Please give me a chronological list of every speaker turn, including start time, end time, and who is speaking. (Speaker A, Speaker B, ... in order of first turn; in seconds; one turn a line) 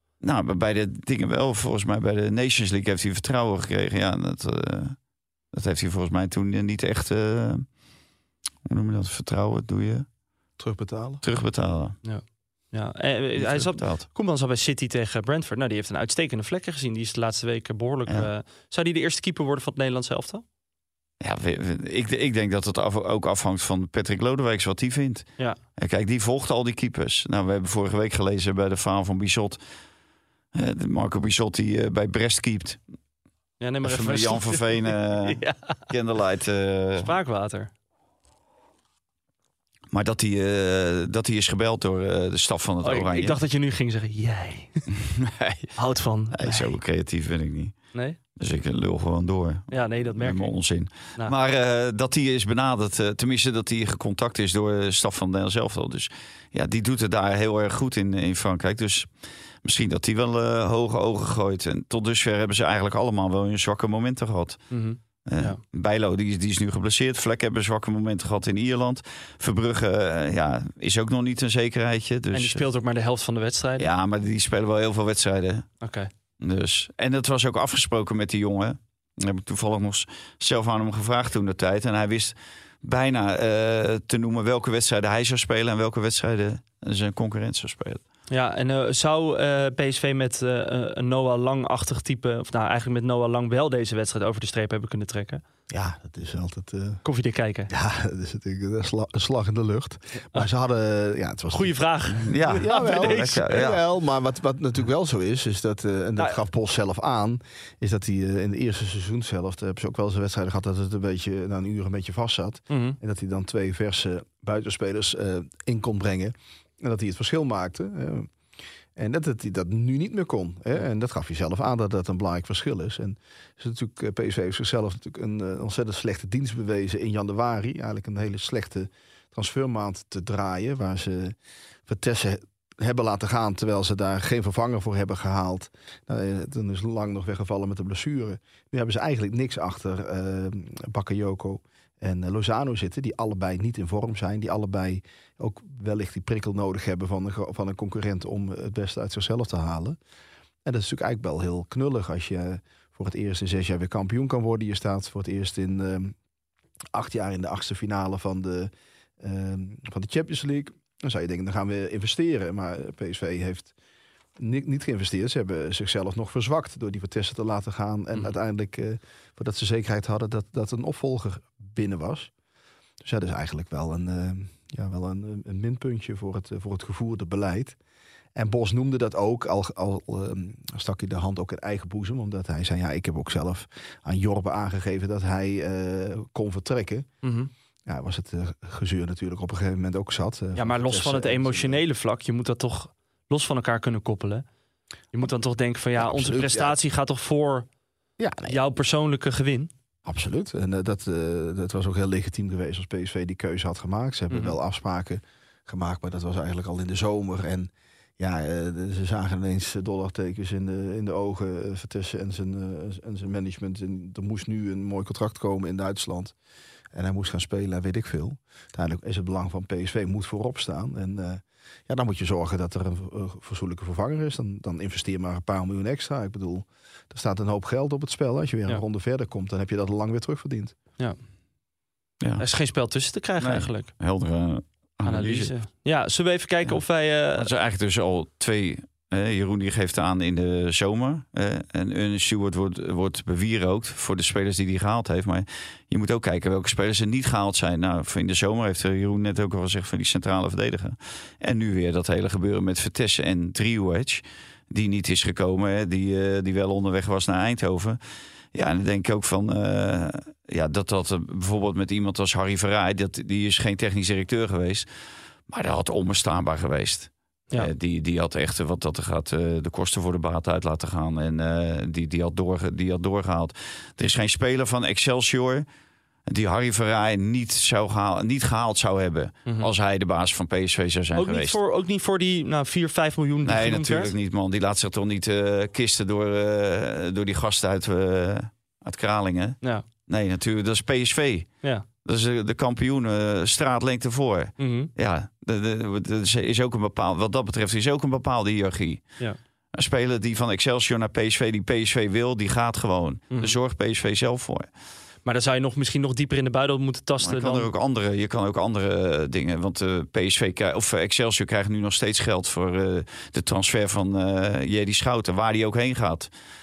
Speaker A: 0.2-5.0
Speaker A: 5.5-7.7
Speaker A: 8.7-10.1
Speaker B: 10.6-11.2
Speaker A: 11.2-11.9
Speaker C: 12.0-20.4
Speaker A: 13.4-14.1
Speaker A: 21.2-29.6
Speaker A: 30.5-32.8
Speaker C: 33.6-35.8
Speaker A: 33.8-37.1
Speaker C: 37.0-37.7
Speaker A: 39.9-43.4
Speaker C: 42.8-44.9
Speaker A: 45.0-45.7
Speaker C: 45.8-46.7
Speaker A: 46.3-47.8
Speaker A: 48.4-59.1
Speaker C: 49.7-50.5
Speaker A: 59.6-64.6
Speaker C: 64.7-65.6
Speaker A: 65.3-72.6
Speaker C: 72.3-73.9
Speaker A: 73.8-75.7
Speaker C: 75.8-76.1
Speaker A: 76.4-88.0
Speaker C: 88.3-95.4
Speaker B: 95.7-97.0
Speaker C: 97.0-97.7
Speaker B: 97.7-101.8
Speaker C: 100.2-100.5
Speaker C: 101.5-103.5
Speaker A: 102.2-103.8
Speaker B: 102.4-118.3
Speaker C: 112.7-113.0
Speaker B: 119.0-131.3
Speaker B: 131.9-150.0
Speaker B: 150.6-156.1
Speaker B: 156.9-163.7
Speaker B: 164.4-172.3
Speaker B: 173.0-177.8
Speaker B: 178.3-187.1
Speaker C: 187.2-187.5
Speaker B: 187.8-191.8
Speaker C: 190.5-194.4
Speaker C: 195.1-197.7
Speaker B: 196.0-196.8
Speaker B: 198.2-198.6
Speaker C: 198.5-199.7
Speaker B: 200.1-216.3
Speaker C: 204.3-204.6
Speaker B: 216.9-230.7
Speaker C: 232.4-233.9
Speaker A: 233.4-235.5
Speaker C: 235.1-237.5
Speaker A: 237.3-258.0
Speaker A: 258.5-264.9
Speaker A: 265.5-275.6
Speaker A: 276.3-281.6
Speaker C: 281.1-284.1
Speaker A: 283.4-291.5
Speaker A: 292.0-299.0
Speaker C: 294.6-294.9
Speaker A: 299.7-304.7
Speaker C: 305.2-307.7
Speaker A: 307.2-316.3